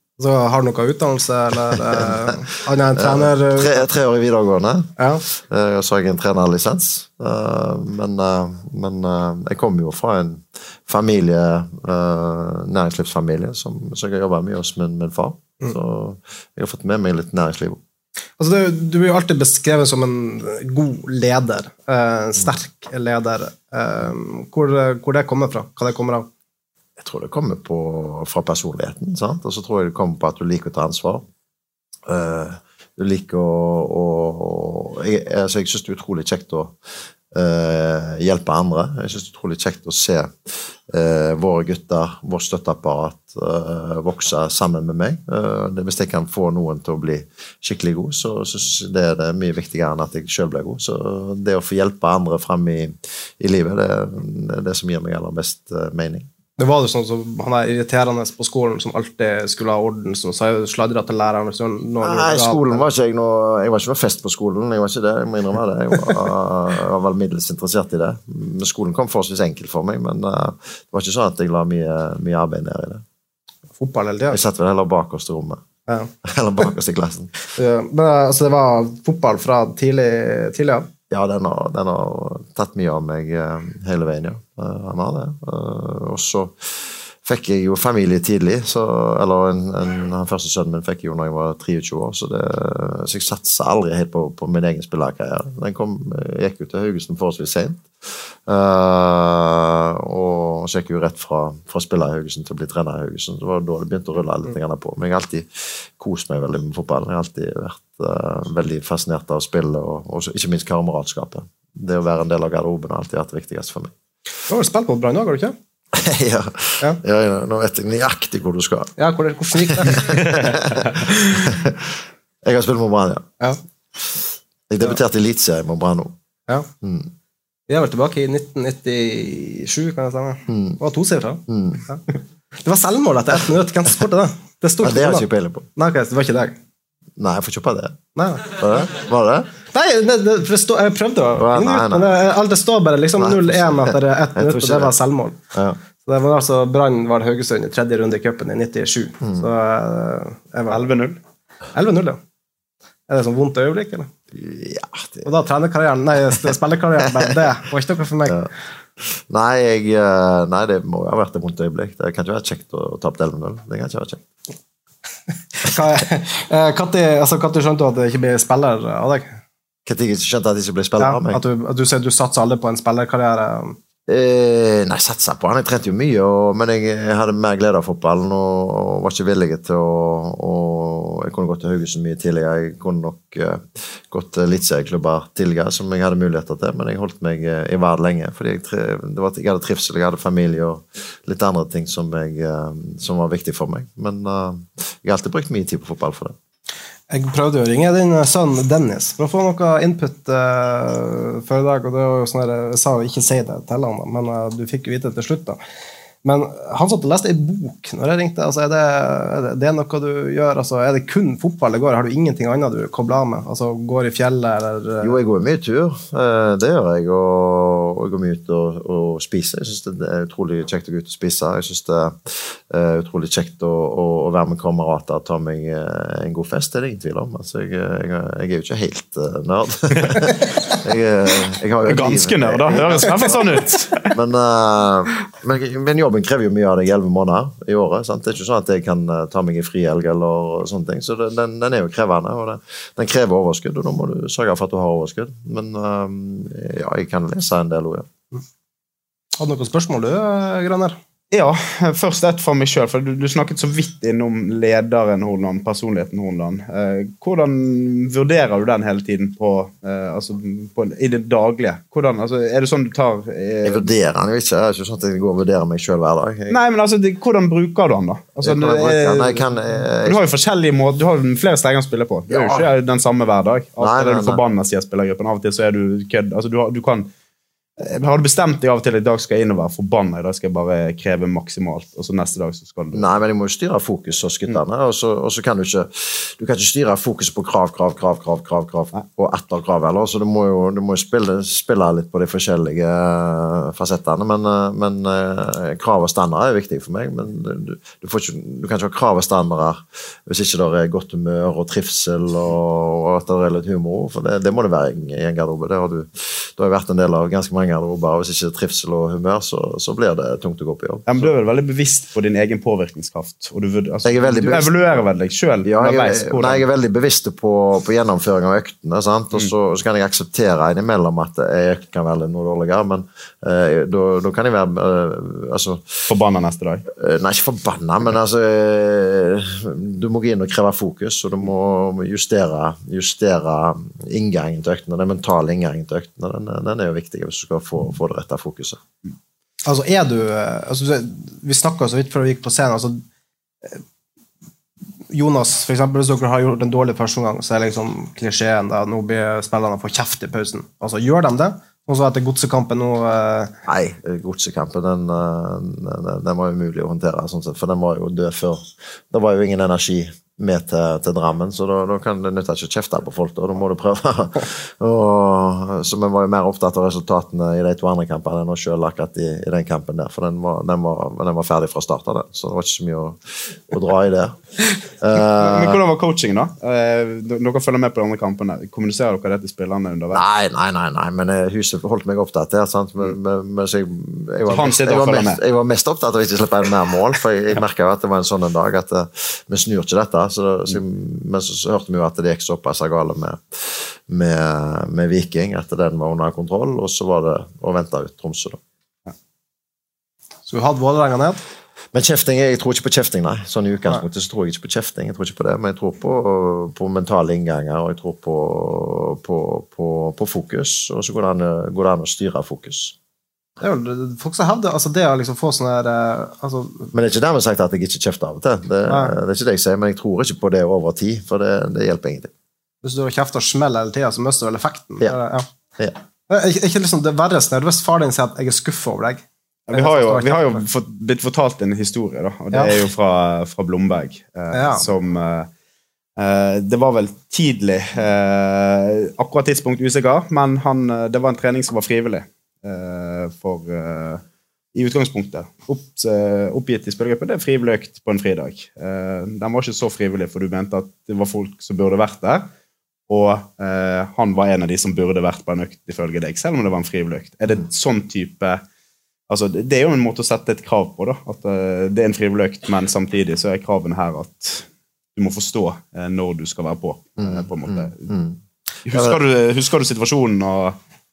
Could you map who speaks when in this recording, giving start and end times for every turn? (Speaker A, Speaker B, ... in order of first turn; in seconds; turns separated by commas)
Speaker A: 0.2-3.8, Speaker B: 1.9-2.3, Speaker B: 2.9-17.8, Speaker A: 5.0-5.2, Speaker A: 18.4-26.3, Speaker B: 27.0-31.2, Speaker B: 32.1-36.8, Speaker B: 37.3-56.3, Speaker A: 56.6-62.9, Speaker B: 62.0-73.0, Speaker A: 73.8-74.4, Speaker B: 74.3-75.6, Speaker B: 76.2-77.3, Speaker A: 77.5-80.9, Speaker B: 81.1-113.9, Speaker A: 114.5-115.5, Speaker B: 115.9-118.9, Speaker A: 119.0-120.3, Speaker B: 119.6-123.3, Speaker B: 124.7-126.1, Speaker B: 126.8-127.1, Speaker A: 127.7-132.0, Speaker B: 130.5-130.8, Speaker B: 131.5-131.8, Speaker A: 132.6-136.6, Speaker B: 134.8-135.7, Speaker B: 137.2-139.5, Speaker A: 138.1-138.6, Speaker A: 139.7-145.4, Speaker B: 141.3-142.2, Speaker B: 143.2-144.9, Speaker B: 145.5-145.8, Speaker A: 146.0-150.9, Speaker B: 149.2-149.4, Speaker C: 150.7-151.2, Speaker A: 151.7-152.2, Speaker A: 153.1-154.1, Speaker B: 154.3-155.3, Speaker A: 155.2-158.3, Speaker B: 157.0-157.3, Speaker B: 158.2-164.2, Speaker A: 165.6-169.4, Speaker B: 169.8-171.4, Speaker A: 171.0-173.8, Speaker B: 174.1-196.3, Speaker A: 197.1-205.6, Speaker A: 206.2-215.1, Speaker B: 215.0-233.4, Speaker C: 231.9-234.1, Speaker B: 234.1-248.1, Speaker A: 249.4-251.0, Speaker C: 251.3-263.8, Speaker B: 263.6-266.6, Speaker C: 266.5-269.5, Speaker B: 268.4-270.2, Speaker C: 270.0-277.1, Speaker B: 272.3-272.7, Speaker B: 273.8-274.4, Speaker C: 277.8-283.1, Speaker B: 282.9-311.3, Speaker C: 311.1-316.6, Speaker B: 314.0-315.0, Speaker B: 315.6-325.9, Speaker C: 326.1-326.8, Speaker B: 326.9-338.8, Speaker A: 339.6-343.0, Speaker A: 345.1-353.5, Speaker B: 353.6-374.4, Speaker B: 375.0-375.8, Speaker C: 375.4-380.2, Speaker B: 380.1-398.6, Speaker C: 384.4-385.4, Speaker A: 400.5-401.4, Speaker B: 401.9-412.9, Speaker A: 413.6-416.9, Speaker B: 416.9-422.3, Speaker A: 418.9-419.1, Speaker A: 422.8-425.5, Speaker A: 426.3-430.6, Speaker C: 429.7-435.5, Speaker A: 434.5-434.9, Speaker C: 436.2-444.2, Speaker C: 444.7-452.5, Speaker C: 453.1-458.6, Speaker C: 459.3-468.1, Speaker B: 467.2-469.2, Speaker C: 468.8-470.8